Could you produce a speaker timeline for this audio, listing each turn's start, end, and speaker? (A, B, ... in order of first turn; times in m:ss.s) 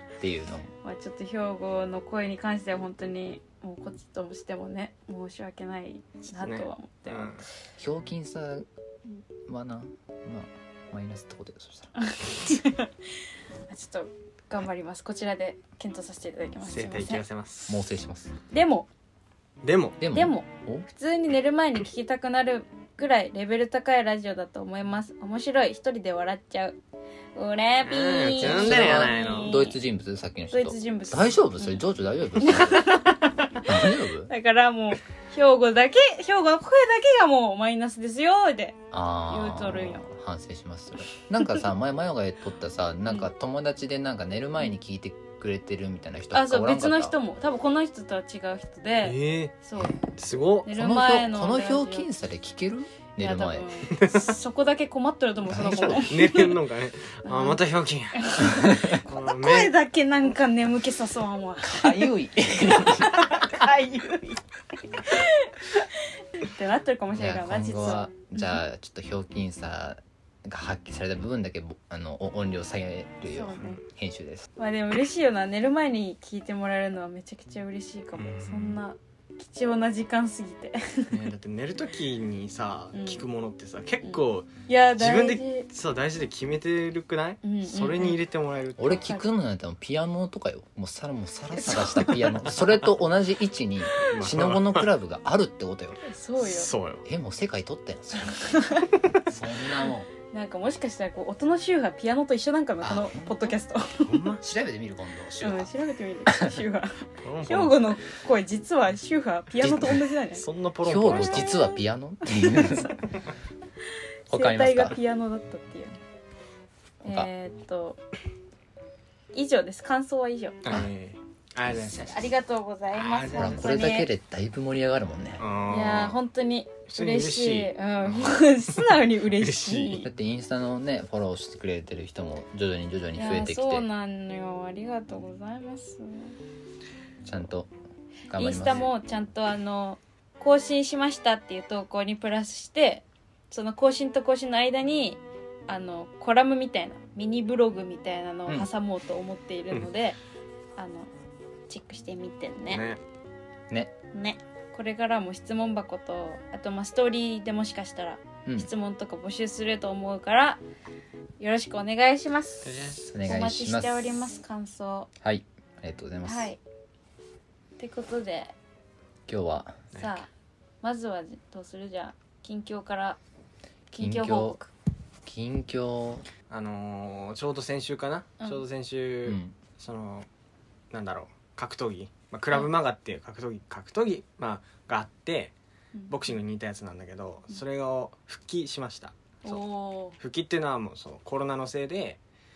0:00.2-0:00.7 A
0:00.8-0:07.4 B
0:06.4-0:07.4 C
0:07.8-0:08.7 A
0:09.4-0:11.9 A
0:12.0-0:12.9 B
0:13.7-0:17.2 B
0:16.6-0:17.8 C
0:17.7-0:18.3 A
0:18.5-0:18.9 B
0:19.6-0:20.0 C
0:20.0-0:20.8 A
0:20.1-0:26.8 B
0:27.3-0:29.8 B
0:27.8-0:29.6 C
0:28.4-0:32.9 A
0:30.5-0:31.8 B
0:32.4-0:33.7 B
0:33.6-0:34.3 A
0:34.3-0:38.8 B
0:38.9-0:47.2 A
0:39.3-0:40.0 B
0:46.3-0:50.1 B
0:49.0-0:50.7 C
0:50.6-0:52.1 B
0:50.7-0:53.7 A
0:53.2-0:56.6 B
0:53.9-0:54.3 C
0:55.5-0:56.0 A
0:55.8-0:59.7 C
0:57.2-0:57.6 B
0:58.1-1:02.1 B
0:58.6-0:59.0 A
1:01.6-1:03.1 A
1:02.6-1:04.4 B
1:05.0-1:08.6 B
1:07.1-1:14.5 A
1:13.3-1:13.8 B
1:14.6-1:21.1 B
1:18.2-1:18.8 C
1:21.1-1:29.0 C
1:22.9-1:23.2 B
1:24.0-1:25.7 B
1:27.4-1:28.2 B
1:28.8-1:36.0 A
1:31.6-1:32.1 B
1:31.8-1:32.6 C
1:34.1-1:34.9 C
1:36.0-1:36.7 B
1:36.4-1:37.0 C
1:37.0-1:38.7 A
1:38.3-1:38.8 B
1:39.3-1:40.1 A
1:39.8-1:44.2 B
1:42.8-1:43.5 A
1:44.0-1:44.4 C
1:44.4-1:45.7 A
1:45.4-1:50.4 B
1:47.2-1:47.8 C
1:49.6-1:50.0 A
1:50.3-1:51.5 C
1:50.8-1:52.9 A
1:51.3-1:51.7 B
1:52.2-1:53.0 B
1:54.3-1:56.0 B
1:54.3-1:55.0 A
1:57.0-1:58.0 B
1:59.3-2:00.6 B
2:00.6-2:02.3 C
2:02.1-2:04.1 B
2:02.9-2:03.7 C
2:03.3-2:05.4 A
2:05.4-2:06.2 C
2:05.6-2:10.0 B
2:06.9-2:08.5 C
2:09.3-2:10.1 C
2:10.0-2:13.8 A
2:13.1-2:16.3 B
2:17.2-2:17.7 A
2:18.3-2:18.9 A
2:18.3-2:30.2 B
2:30.8-2:31.1 B
2:31.7-2:32.8 B
2:32.7-2:33.0 C
2:34.1-2:40.6 B
2:41.4-2:45.1 B
2:42.6-2:43.1 C
2:43.1-2:43.9 A
2:45.2-2:46.5 A
2:46.2-2:46.6 B
2:47.8-2:48.5 B
2:49.3-2:49.8 A
2:49.9-2:50.3 B
2:50.8-2:53.2 B
2:53.9-2:54.7 B
2:54.0-2:54.6 A
2:55.2-2:56.2 A
2:56.5-3:00.3 C
2:59.2-2:59.5 A
3:00.9-3:05.5 C
3:06.1-3:09.6 C
3:09.4-3:10.2 B
3:10.2-3:12.2 C